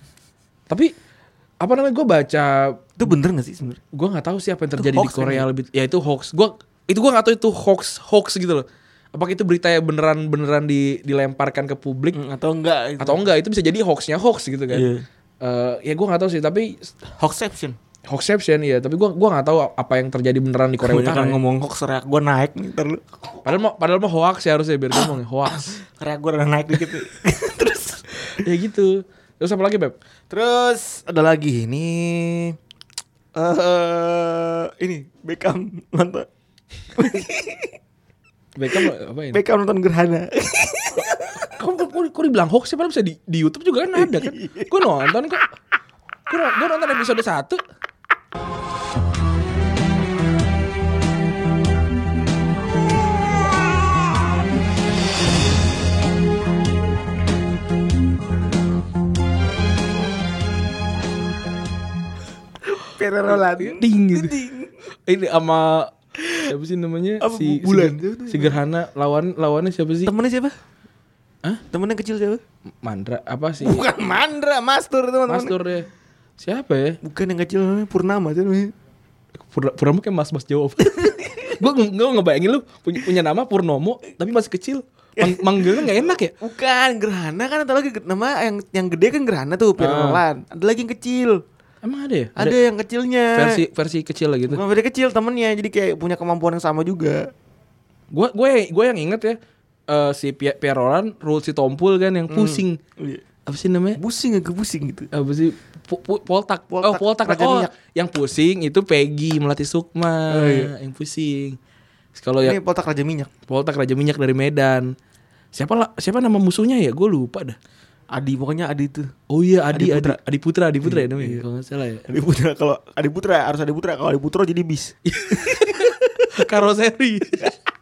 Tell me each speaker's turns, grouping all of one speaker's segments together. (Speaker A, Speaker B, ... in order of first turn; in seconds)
Speaker A: 1.6-2.8, 3.9-12.2, 13.0-14.9, 15.4-16.9, 18.1-21.4, 23.4-25.7, 28.4-29.9, 38.5-39.4, 41.5-45.4, 46.3-47.6, 63.3-64.3, 65.0-65.9, 66.5-70.1, 72.8-73.8, 75.3-75.9, 76.4-77.0, 79.4-86.3, 89.8-90.2, 91.8-92.6, 93.3-94.6, 98.1-102.8, 103.5-104.0, 105.1-111.6, 112.1-112.6, 113.5-114.9, 115.5-117.6, 119.3-122.0, 125.0-127.5
Speaker B: 3.0-3.8, 4.8-5.5, 12.1-13.2, 14.7-15.0, 17.2-17.8, 20.8-23.1, 25.7-28.0, 30.3-32.5, 33.3-36.3, 36.9-37.7, 38.8-41.5, 44.0-44.7, 62.7-64.7, 67.2-68.6, 70.0-70.5, 71.7-72.4, 73.6-75.5, 77.0-78.7, 80.9-81.5, 85.2-91.4, 92.4-93.6, 94.5-97.3, 102.3-103.2, 104.0-105.1, 106.7-107.7, 110.3-110.7, 112.4-113.3, 118.1-119.1, 119.7-120.2, 120.8-121.4, 122.1-125.9